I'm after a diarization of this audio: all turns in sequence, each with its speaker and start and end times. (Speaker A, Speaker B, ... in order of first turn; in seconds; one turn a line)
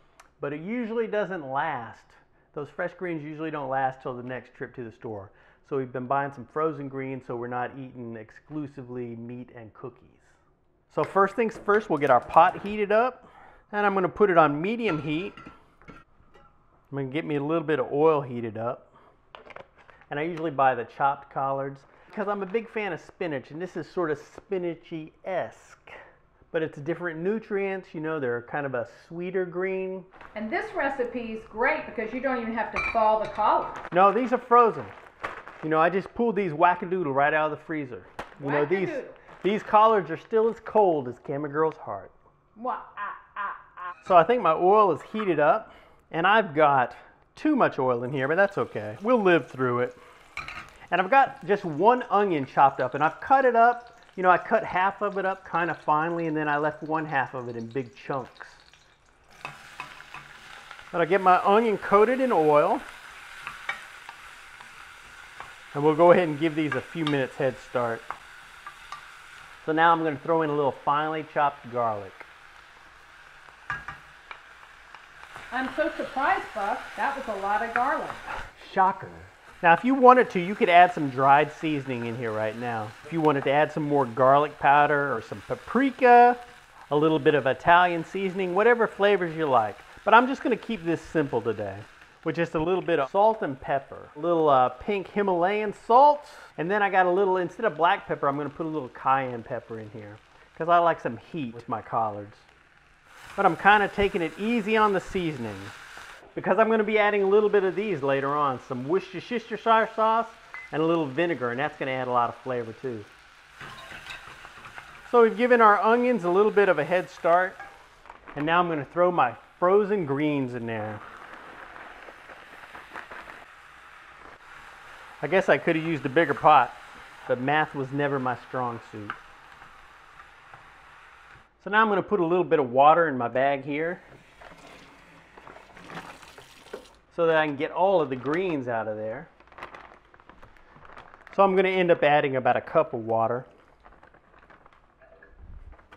Speaker A: 0.4-10.3
Speaker A: 10.9-15.3
Speaker A: 16.9-18.9
Speaker A: 20.1-25.9
Speaker A: 26.5-30.1
Speaker B: 30.3-33.8
Speaker A: 33.9-34.9
Speaker A: 35.6-42.1
Speaker B: 38.4-39.2
Speaker B: 42.5-43.6
Speaker A: 44.0-50.0
Speaker A: 50.9-58.6
Speaker A: 60.9-62.8
Speaker A: 65.7-68.1
Speaker A: 69.6-72.3
Speaker B: 75.5-78.3
Speaker A: 78.5-102.5
Speaker A: 103.4-105.7
Speaker A: 106.3-113.1
Speaker A: 115.1-117.6
Speaker A: 118.3-121.0
Speaker A: 125.2-129.2
Speaker A: 131.6-134.0
Speaker A: 137.1-139.3
Speaker A: 141.3-143.5